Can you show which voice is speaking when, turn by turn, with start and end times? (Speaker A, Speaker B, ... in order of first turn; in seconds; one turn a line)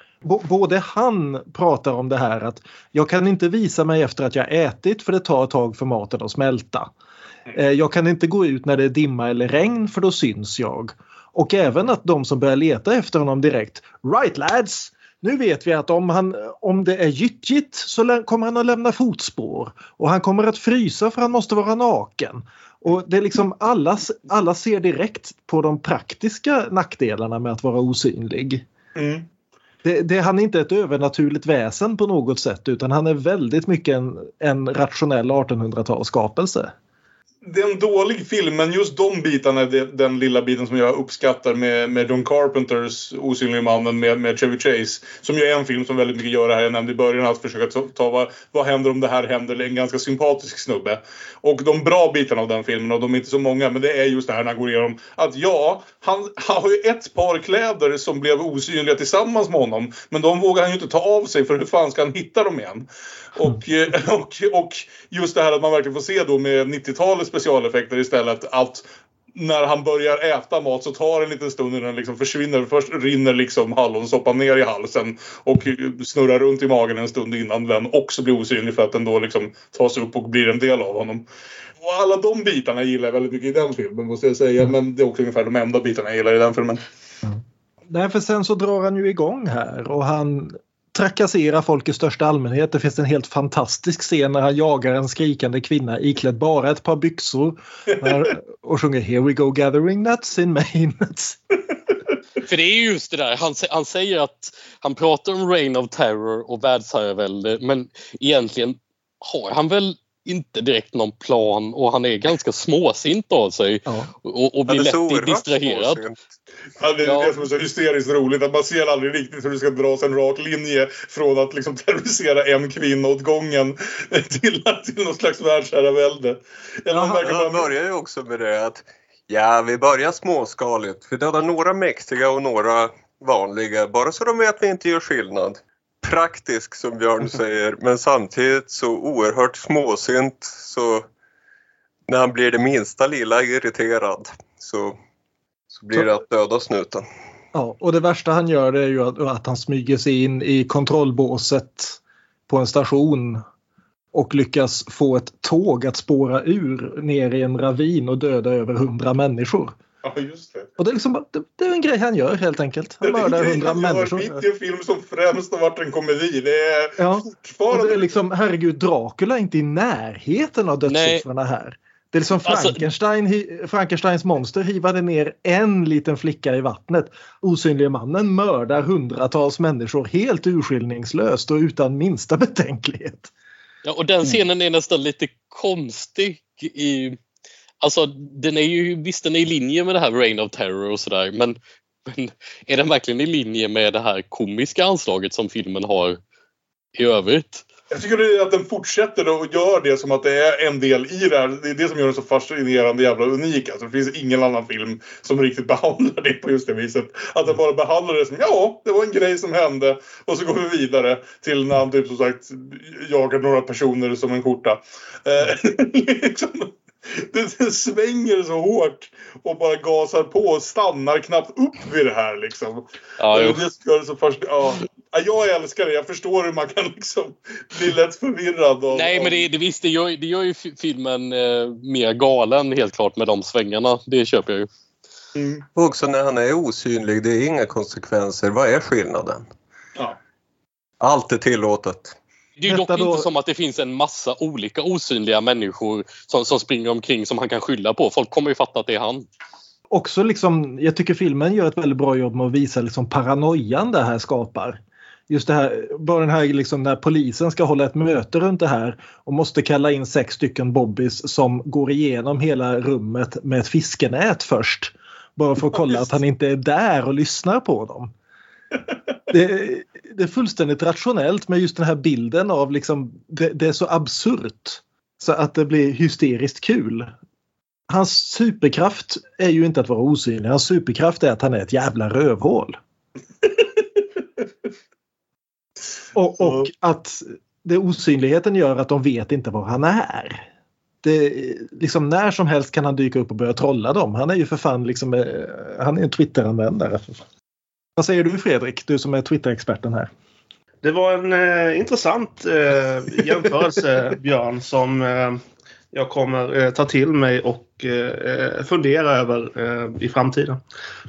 Speaker A: 0.2-6.9
Speaker A: 7.5-28.6
Speaker B: 28.9-29.2
Speaker A: 29.8-36.7
Speaker B: 37.4-81.2
Speaker B: 81.8-86.8
Speaker A: 87.2-101.4
Speaker C: 102.4-116.0
Speaker A: 113.8-114.1
Speaker D: 114.7-116.2
Speaker B: 116.8-127.7
Speaker C: 117.0-117.4
Speaker D: 126.9-141.1
Speaker D: 142.1-145.0
Speaker D: 145.7-147.1
Speaker A: 147.5-153.4
Speaker A: 154.1-159.7
Speaker B: 160.0-160.7
Speaker A: 160.8-164.4
Speaker B: 163.0-168.1
Speaker A: 167.0-183.3
Speaker C: 170.9-171.2
Speaker C: 172.5-172.8
Speaker C: 183.8-187.2
Speaker C: 187.8-196.2
Speaker C: 196.9-197.6
Speaker B: 197.9-229.5
Speaker C: 223.2-223.6
Speaker C: 228.9-234.7
Speaker B: 235.3-235.6
Speaker D: 235.7-239.5
Speaker D: 241.0-242.2
Speaker C: 242.6-249.2
Speaker A: 242.7-243.2
Speaker A: 249.9-268.1
Speaker A: 269.3-277.1
Speaker A: 277.9-282.8
Speaker A: 286.1-290.4
Speaker A: 291.0-297.2
Speaker A: 298.0-300.1
Speaker E: 300.8-305.4
Speaker E: 305.9-310.6